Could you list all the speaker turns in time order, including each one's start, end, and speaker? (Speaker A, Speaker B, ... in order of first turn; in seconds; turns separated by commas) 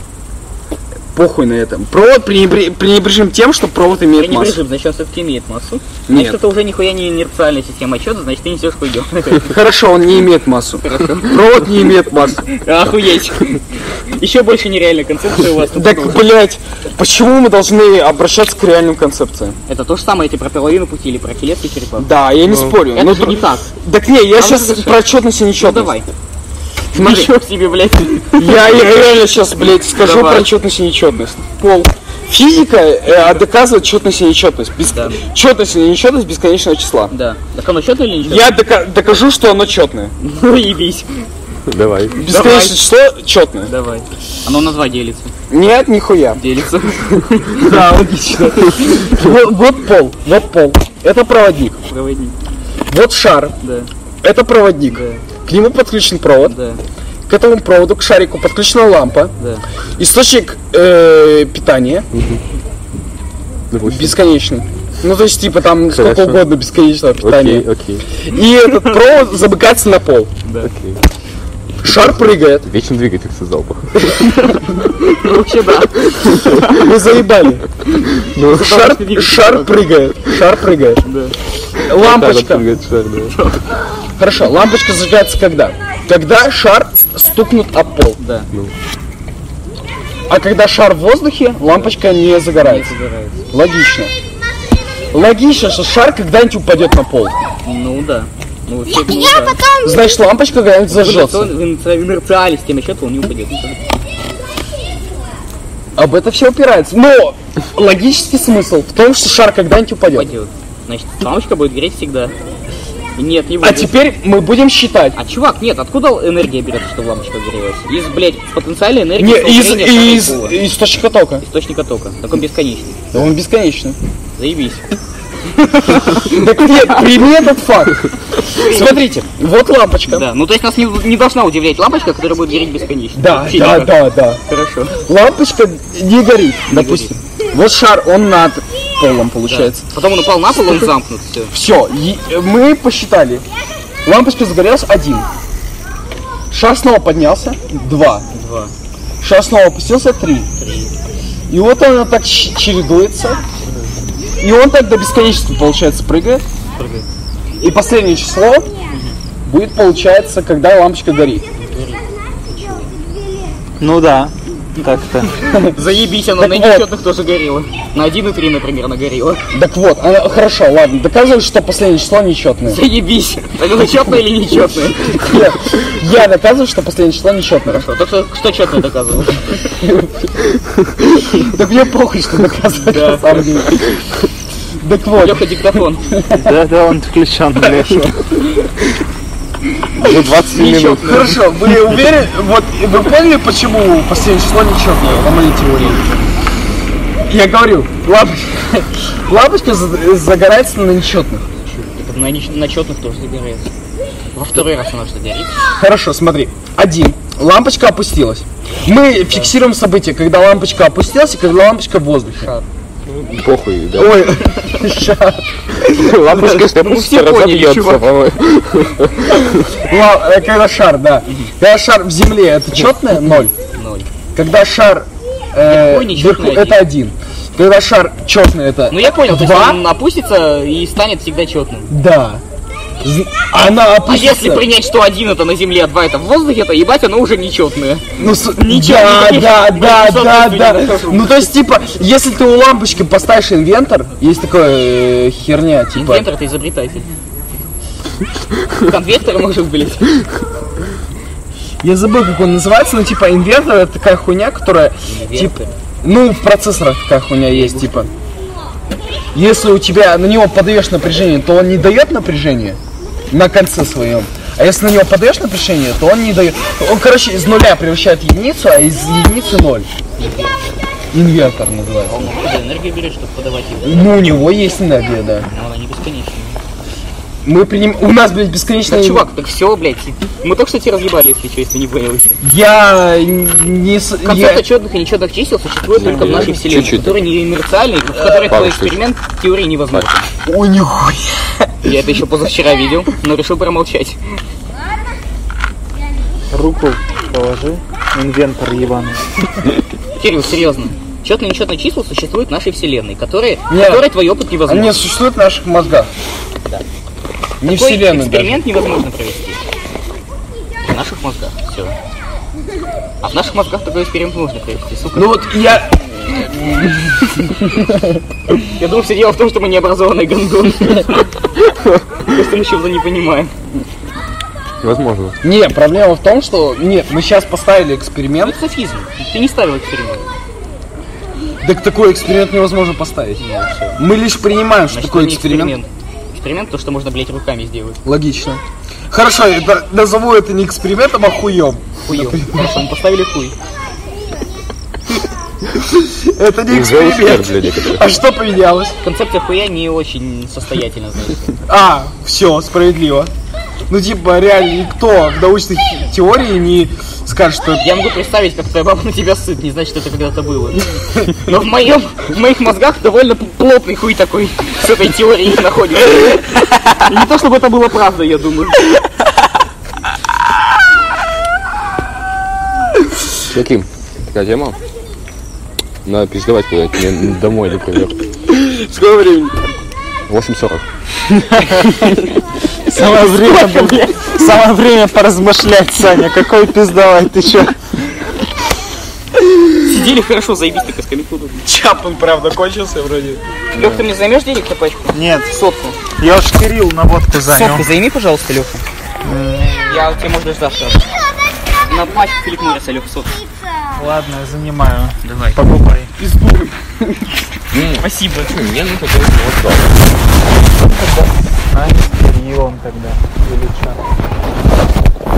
Speaker A: 1.1-4.6, Speaker B: 4.1-9.6, Speaker A: 6.1-6.4, Speaker A: 9.4-12.4, Speaker B: 10.8-11.6, Speaker B: 12.5-13.6, Speaker B: 14.1-16.2, Speaker A: 15.7-19.6, Speaker B: 19.7-22.1, Speaker A: 22.0-25.9, Speaker C: 22.5-22.7, Speaker B: 22.9-23.7, Speaker B: 24.4-25.0, Speaker B: 25.6-26.1, Speaker A: 26.9-27.4, Speaker B: 26.9-29.1, Speaker A: 28.4-37.1, Speaker B: 29.9-30.5, Speaker B: 34.9-35.2, Speaker B: 37.1-38.5, Speaker A: 38.2-40.1, Speaker B: 40.2-41.2, Speaker C: 41.7-42.2, Speaker A: 42.1-43.7, Speaker B: 42.2-42.9, Speaker B: 43.6-45.3, Speaker A: 45.5-46.4, Speaker B: 46.4-47.8, Speaker A: 47.5-51.8, Speaker B: 51.9-52.4, Speaker A: 52.9-53.5, Speaker B: 53.6-53.9, Speaker A: 54.2-56.5, Speaker B: 54.9-55.2, Speaker B: 56.4-56.8, Speaker A: 57.3-59.3, Speaker A: 60.0-62.1, Speaker C: 62.1-62.4, Speaker C: 63.7-64.2, Speaker A: 63.8-70.3, Speaker C: 65.9-66.4, Speaker C: 67.2-68.0, Speaker B: 70.4-70.7, Speaker C: 70.6-71.0, Speaker A: 71.8-72.7, Speaker C: 72.6-74.3, Speaker B: 74.2-77.0, Speaker C: 76.3-76.6, Speaker A: 76.5-77.6, Speaker C: 78.2-78.7, Speaker B: 78.5-79.8, Speaker A: 78.5-81.0, Speaker B: 81.0-81.3, Speaker A: 81.8-82.7, Speaker C: 81.9-83.3, Speaker B: 83.3-83.6, Speaker A: 84.2-88.2, Speaker B: 88.2-88.5, Speaker A: 90.3-92.9, Speaker B: 92.5-93.4, Speaker A: 93.5-94.1, Speaker A: 95.1-97.4, Speaker B: 97.6-99.7, Speaker A: 99.8-101.5, Speaker B: 100.9-103.9, Speaker A: 106.0-110.3, Speaker B: 110.1-112.3, Speaker B: 113.2-114.0, Speaker A: 113.6-115.2, Speaker B: 115.2-120.6, Speaker A: 119.2-121.4, Speaker B: 121.4-123.2, Speaker A: 123.1-124.0, Speaker B: 124.4-124.8, Speaker B: 125.5-126.9, Speaker A: 125.9-130.3, Speaker B: 128.4-129.0, Speaker B: 130.1-135.0, Speaker A: 133.1-134.4, Speaker A: 135.1-139.8, Speaker B: 136.7-137.2, Speaker B: 139.5-141.5, Speaker A: 141.5-143.4, Speaker A: 144.0-145.3, Speaker A: 146.5-148.2, Speaker B: 148.3-148.7, Speaker A: 149.2-150.5, Speaker B: 150.6-150.9, Speaker A: 151.5-153.4, Speaker A: 154.4-156.4, Speaker B: 156.8-157.1, Speaker A: 157.6-158.7, Speaker B: 158.9-159.2, Speaker A: 159.4-161.4, Speaker B: 161.6-162.9, Speaker D: 163.8-165.4, Speaker A: 165.4-165.8, Speaker B: 165.7-169.4, Speaker A: 166.4-166.9, Speaker A: 169.5-172.8, Speaker B: 172.7-175.4, Speaker A: 175.1-177.9, Speaker B: 177.7-179.8, Speaker A: 179.8-180.3, Speaker A: 181.3-183.9, Speaker B: 182.8-183.4, Speaker A: 184.8-186.5, Speaker B: 185.2-186.1, Speaker D: 186.3-188.1, Speaker C: 190.0-191.4, Speaker B: 190.5-191.4, Speaker A: 191.0-196.1, Speaker B: 195.0-196.2, Speaker A: 197.3-201.4, Speaker B: 201.6-203.7, Speaker B: 204.3-205.7, Speaker A: 205.8-212.5, Speaker B: 209.2-209.5, Speaker B: 212.4-212.7, Speaker C: 213.1-214.4, Speaker A: 213.9-216.1, Speaker C: 215.8-219.6, Speaker B: 216.2-218.1, Speaker A: 219.7-223.5, Speaker B: 221.3-221.5, Speaker B: 222.8-224.1, Speaker A: 224.3-229.8, Speaker B: 225.6-226.8, Speaker B: 228.9-231.9, Speaker A: 231.9-232.4, Speaker A: 233.0-234.6, Speaker B: 234.1-238.1, Speaker A: 238.2-246.3, Speaker B: 238.6-241.3, Speaker B: 245.9-247.1, Speaker B: 248.8-250.1, Speaker A: 251.8-258.1, Speaker B: 255.1-255.7, Speaker B: 257.5-258.1, Speaker A: 259.3-262.8, Speaker A: 263.3-269.9, Speaker B: 270.2-270.8, Speaker A: 271.1-272.3, Speaker B: 272.1-274.5, Speaker A: 273.8-275.5, Speaker B: 275.5-276.6, Speaker A: 277.4-279.3, Speaker B: 278.9-282.4, Speaker A: 282.4-284.6, Speaker B: 284.2-290.3, Speaker C: 285.9-287.2, Speaker D: 286.0-286.5, Speaker A: 288.2-288.5, Speaker C: 288.3-289.0, Speaker A: 290.4-291.8, Speaker B: 291.8-294.4, Speaker D: 296.5-299.3, Speaker B: 300.1-305.0, Speaker A: 303.7-304.1, Speaker A: 304.6-306.1, Speaker A: 307.6-308.6, Speaker B: 307.7-309.6, Speaker B: 310.8-311.9, Speaker B: 313.2-315.8, Speaker A: 315.1-318.2, Speaker B: 318.8-321.3, Speaker B: 322.2-323.5, Speaker C: 324.8-325.4, Speaker A: 325.4-328.6, Speaker B: 328.4-330.3, Speaker A: 331.6-333.4, Speaker B: 333.4-334.0, Speaker A: 334.0-335.7, Speaker B: 334.9-338.0, Speaker A: 338.0-342.8, Speaker B: 342.0-343.5, Speaker A: 345.9-349.0, Speaker C: 346.7-348.1, Speaker B: 349.0-351.6, Speaker A: 351.7-353.3, Speaker A: 353.9-357.8, Speaker B: 357.8-368.9, Speaker C: 373.5-374.8, Speaker C: 376.0-378.2, Speaker A: 378.5-379.6, Speaker C: 380.3-380.8, Speaker D: 381.3-382.2, Speaker D: 382.9-387.8, Speaker B: 383.0-384.2, Speaker B: 389.8-391.6, Speaker A: 391.6-393.4, Speaker B: 393.7-396.0, Speaker D: 395.1-395.5, Speaker D: 396.1-397.9, Speaker B: 397.4-398.8, Speaker D: 399.2-399.8, Speaker B: 399.8-401.1, Speaker B: 401.9-403.4, Speaker D: 403.9-406.1, Speaker B: 405.2-405.6, Speaker A: 406.2-407.3, Speaker C: 407.7-410.1, Speaker B: 408.0-408.5, Speaker D: 410.6-414.0